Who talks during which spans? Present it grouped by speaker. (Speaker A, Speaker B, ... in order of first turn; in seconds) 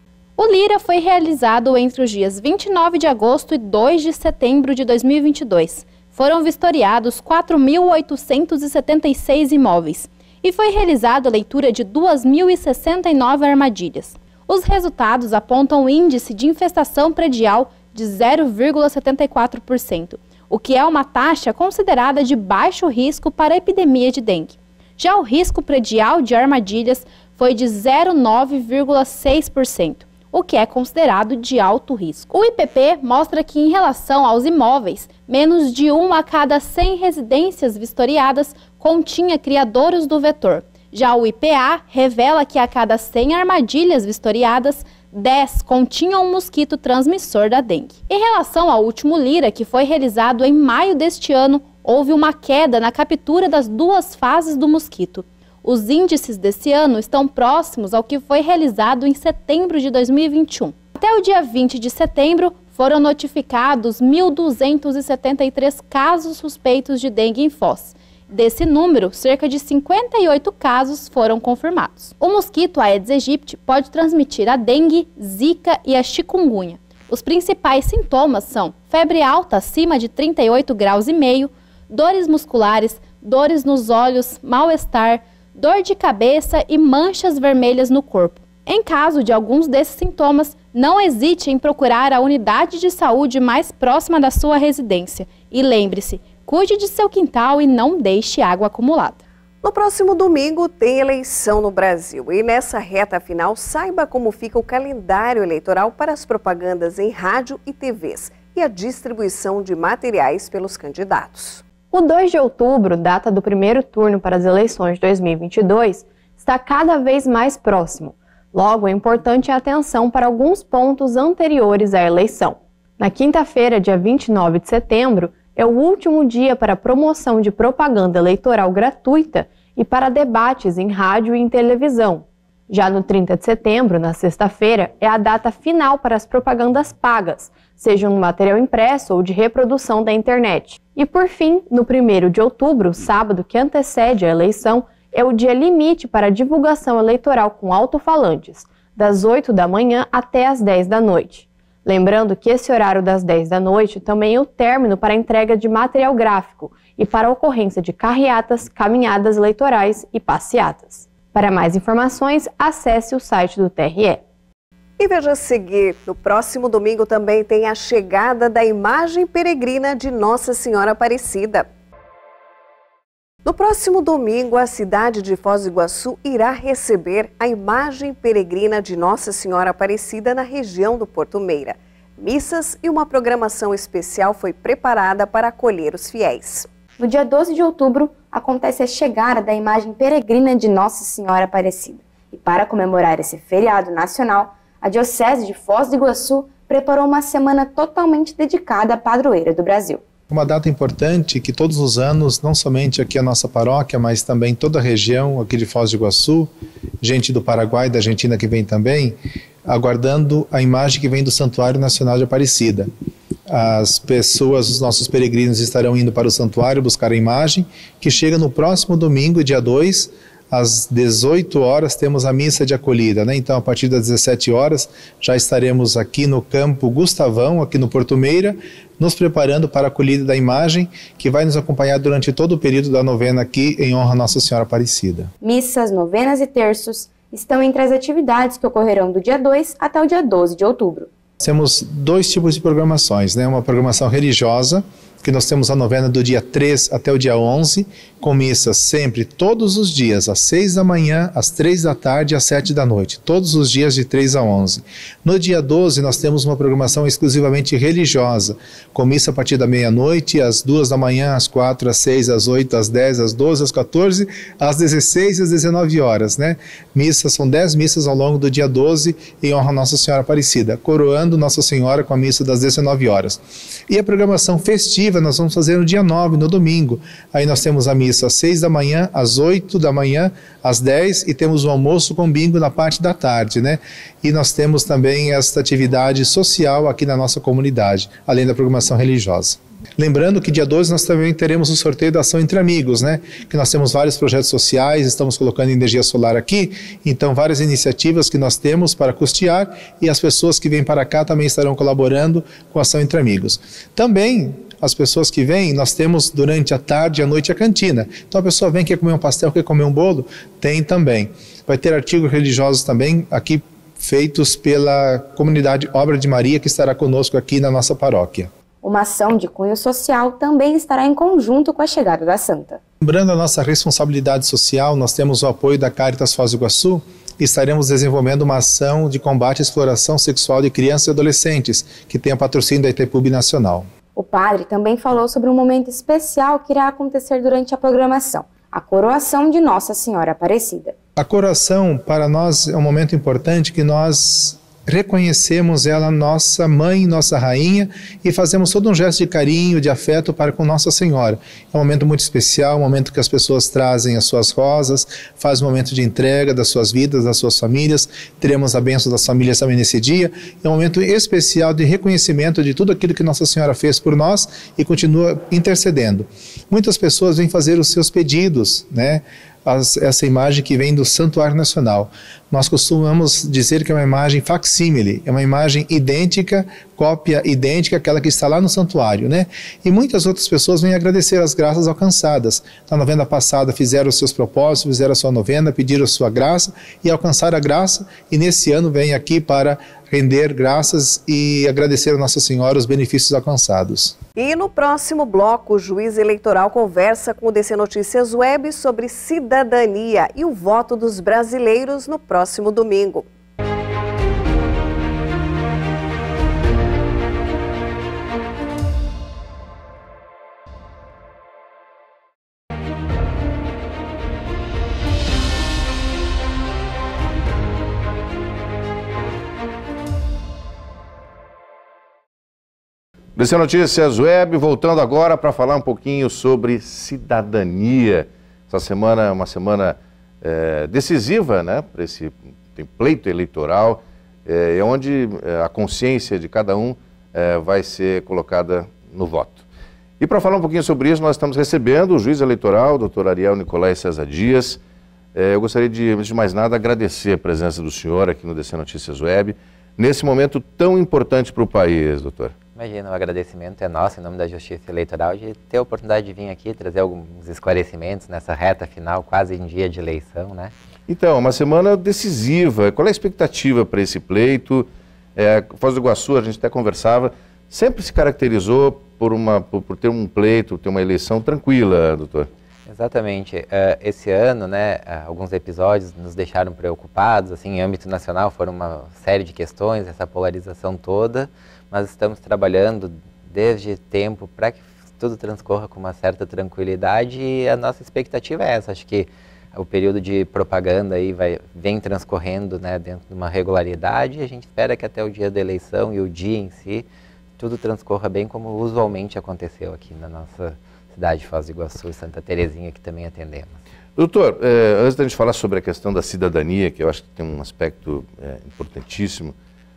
Speaker A: 0.4-99.2
Speaker B: 99.6-111.6, 165.0-171.7, 173.4-186.7, 394.4-403.2
Speaker C: 111.9-164.2
Speaker D: 187.0-200.0, 235.4-241.1, 318.8-322.8, 334.1-340.9
Speaker E: 200.3-212.9, 213.5-235.3, 241.4-318.5, 323.0-333.9, 341.1-394.1
Speaker F: 423.4-439.6, 440.2-444.8, 445.3-452.5, 461.1-472.5, 504.1-509.5
Speaker G: 452.8-460.7, 472.9-497.0, 497.6-503.8